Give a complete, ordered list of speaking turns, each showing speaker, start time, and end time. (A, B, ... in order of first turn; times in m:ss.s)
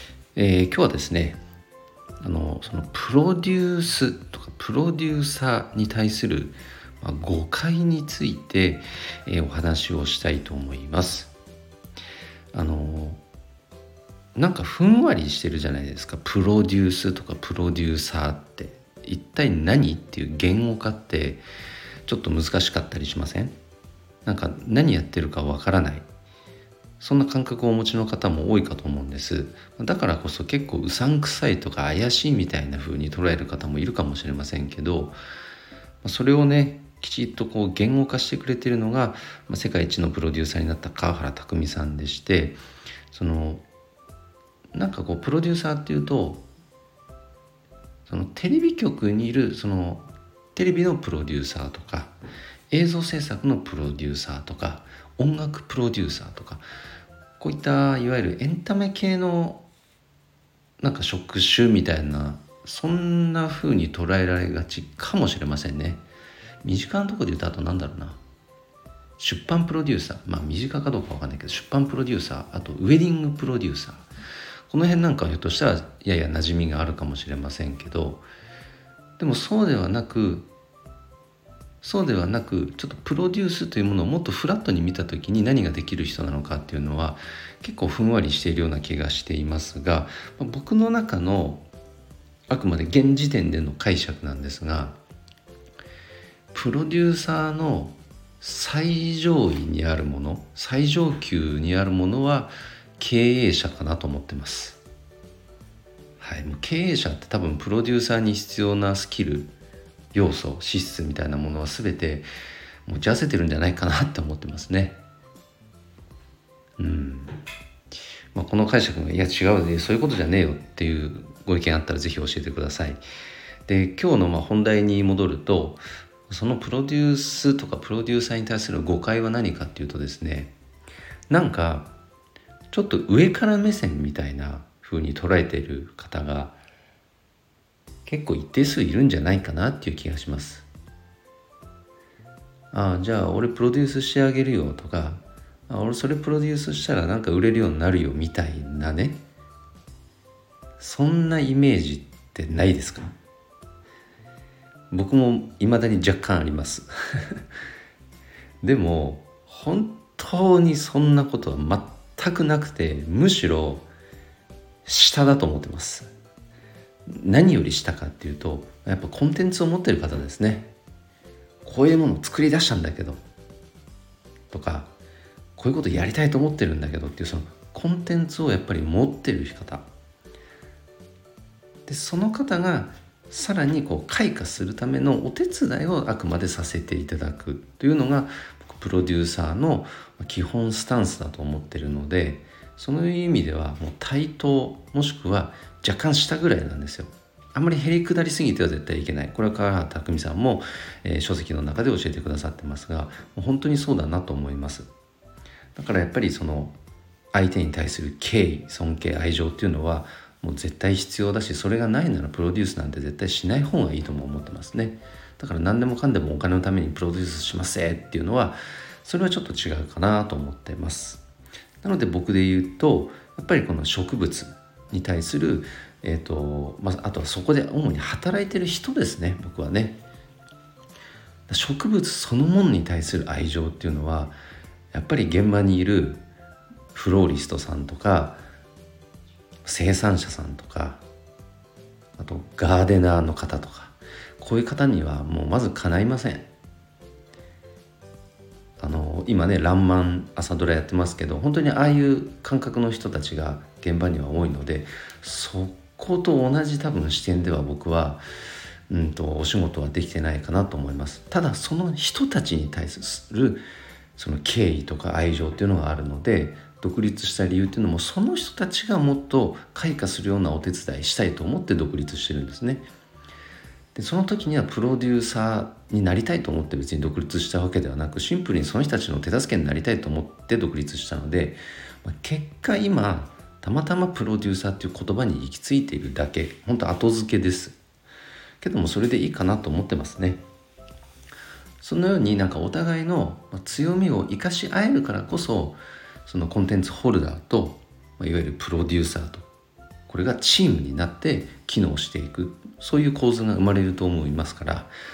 0:00.3-0:01.4 A
0:02.2-0:11.3 A
0:12.5-0:13.2 A
0:14.3-0:21.4 A
0:22.0-0:23.5 A
0:24.2-0:26.0 A
0:27.0-0:35.2 A
0:36.0-0:43.6 A
0:44.7-0:46.4 A
0:48.1-0:52.1 A
0:52.7-0:56.6 A
0:57.4-0:59.6 A
1:00.8-1:06.0 A
1:06.6-1:08.2 A
1:09.2-1:14.1 A
1:14.7-1:18.2 A
1:19.2-1:20.5 A
1:21.8-1:31.6 A
1:32.5-1:35.0 A
1:36.5-1:44.8 A
1:46.2-1:49.5 A
1:50.1-1:52.3 A
1:52.8-1:55.0 A
1:56.8-1:57.4 A
1:58.3-2:03.0 A
2:03.7-2:10.5 A
2:11.3-2:11.9 A
2:12.7-2:16.6 A
2:18.0-2:20.7 A
2:22.7-2:29.2 A
2:30.8-2:33.1 A
2:34.9-2:37.4 A
2:38.6-2:43.9 A
2:44.8-2:46.1 A
2:47.1-2:50.7 A
2:51.6-2:53.2 A
2:54.5-2:54.9 A
2:55.6-2:59.9 A
3:01.8-3:24.9 A
3:25.7-3:26.8 A
3:27.3-3:41.2 A
3:41.8-3:50.0 A
3:51.5-3:54.4 A
3:54.9-3:56.2 A
3:56.9-3:58.4 A
3:59.6-4:01.0 A
4:02.2-4:06.5 A
4:08.8-4:18.2 A
4:18.9-4:23.6 A
4:24.2-4:32.9 A
4:33.9-4:47.8 A
4:48.6-4:50.4 A
4:51.8-4:59.5 A
5:00.1-5:04.9 A